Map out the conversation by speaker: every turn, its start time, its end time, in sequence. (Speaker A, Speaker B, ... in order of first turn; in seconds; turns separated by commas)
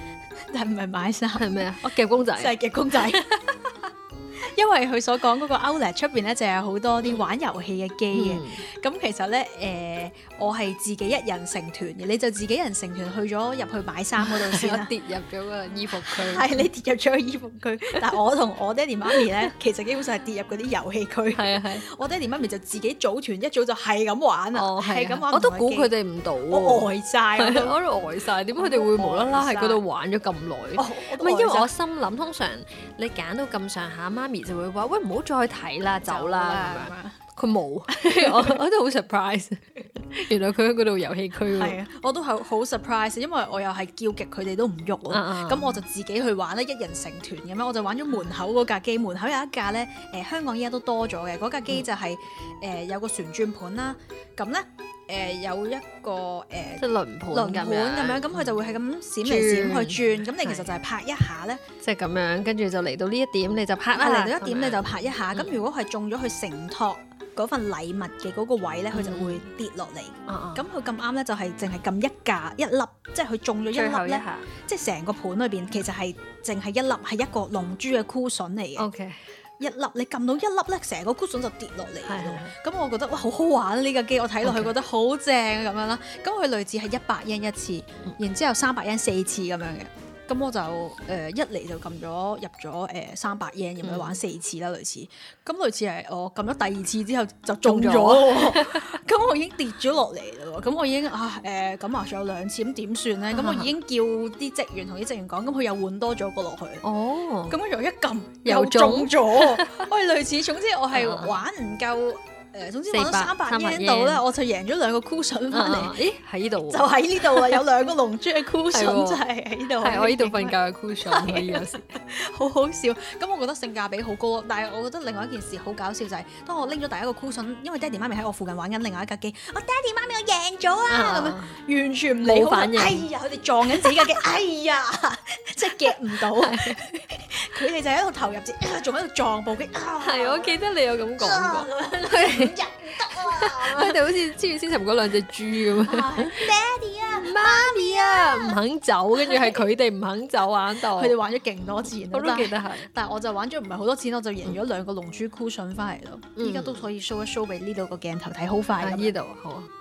Speaker A: 0.4-1.6, Speaker B: 1.4-3.2, Speaker A: 2.4-3.3, Speaker A: 4.4-14.9, Speaker B: 8.1-8.6, Speaker B: 14.2-16.6, Speaker A: 16.0-25.9, Speaker B: 21.3-21.8, Speaker B: 24.5-41.8, Speaker A: 26.5-27.8, Speaker A: 28.6-29.8, Speaker A: 30.8-31.7, Speaker A: 36.0-37.2, Speaker A: 37.9-38.6, Speaker A: 41.5-61.6, Speaker B: 45.1-45.8, Speaker B: 56.8-58.6, Speaker B: 59.2-60.7, Speaker B: 61.8-65.6, Speaker A: 64.0-78.9, Speaker B: 68.9-69.4, Speaker B: 70.3-70.6, Speaker B: 73.7-74.5, Speaker B: 78.8-79.2, Speaker A: 79.6-106.8, Speaker B: 82.0-82.5, Speaker B: 84.4-84.7, Speaker B: 93.8-94.2, Speaker B: 97.6-98.9, Speaker B: 103.3-103.7, Speaker B: 106.8-107.6, Speaker A: 107.5-116.0, Speaker B: 108.4-109.9, Speaker B: 110.9-111.4, Speaker B: 112.9-114.2, Speaker B: 115.5-117.6, Speaker A: 116.7-140.6, Speaker B: 118.7-119.2, Speaker B: 119.8-121.9, Speaker B: 130.9-131.6, Speaker B: 132.2-133.1, Speaker B: 136.3-136.8, Speaker B: 140.0-146.5, Speaker A: 141.2-144.0, Speaker A: 145.8-148.6, Speaker B: 147.1-151.2, Speaker A: 149.2-149.6, Speaker A: 150.8-159.1, Speaker B: 152.1-152.9, Speaker B: 156.4-156.8, Speaker B: 158.8-159.7